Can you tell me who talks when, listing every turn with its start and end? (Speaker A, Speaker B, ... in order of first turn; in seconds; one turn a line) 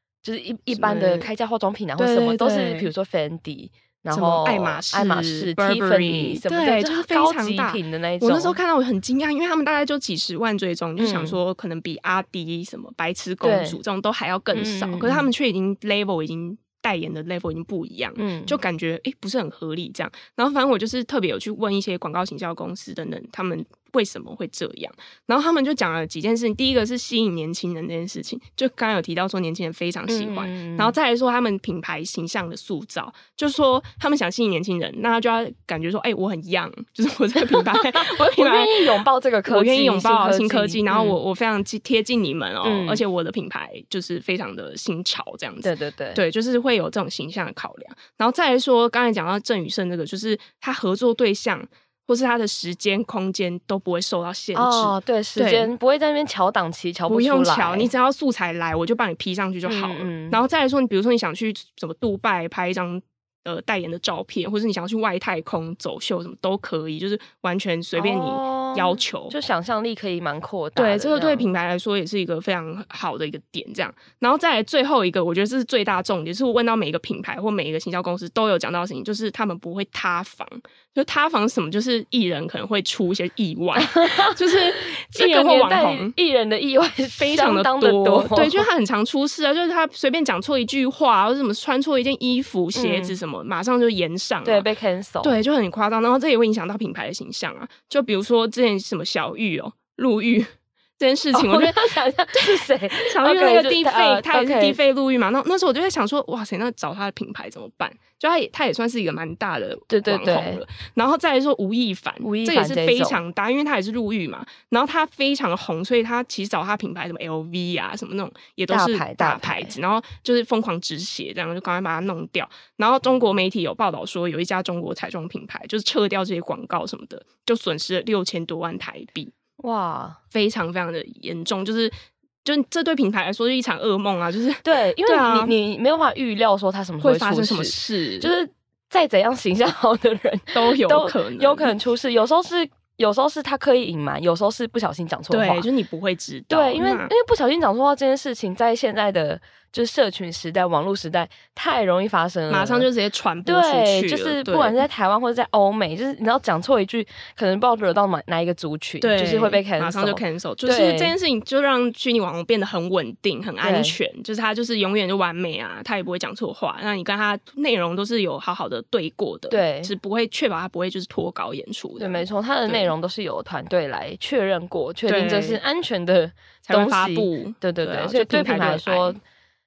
Speaker A: 0.2-8.6
Speaker B: 0.7-1.3
Speaker B: 2.0-2.9
Speaker B: 4.1-55.7
Speaker A: 11.0-11.4
Speaker A: 13.4-13.8
Speaker A: 14.5-15.3
Speaker A: 18.2-18.6
Speaker A: 30.1-31.0
Speaker A: 37.5-41.2
Speaker A: 42.6-43.0
Speaker A: 45.6-46.2
Speaker A: 54.5-57.9
Speaker B: 57.1-69.3
Speaker A: 59.7-60.4
Speaker A: 68.0-71.5
Speaker B: 70.8-86.1
Speaker A: 83.8-88.7
Speaker B: 87.2-94.7
Speaker A: 92.8-93.2
Speaker A: 94.5-95.4
Speaker B: 95.2-129.3
Speaker A: 101.3-104.8
Speaker A: 109.9-110.6
Speaker A: 112.2-113.2
Speaker A: 118.7-119.8
Speaker A: 129.6-130.2
Speaker B: 130.3-135.5
Speaker A: 134.6-145.7
Speaker B: 137.0-138.3
Speaker B: 140.5-141.7
Speaker B: 145.3-147.1
Speaker A: 146.5-152.9
Speaker B: 152.5-154.8
Speaker A: 153.4-161.1
Speaker B: 159.0-172.9
Speaker A: 163.6-164.0
Speaker A: 169.5-169.9
Speaker A: 172.0-179.2
Speaker B: 175.1-175.6
Speaker B: 176.7-179.2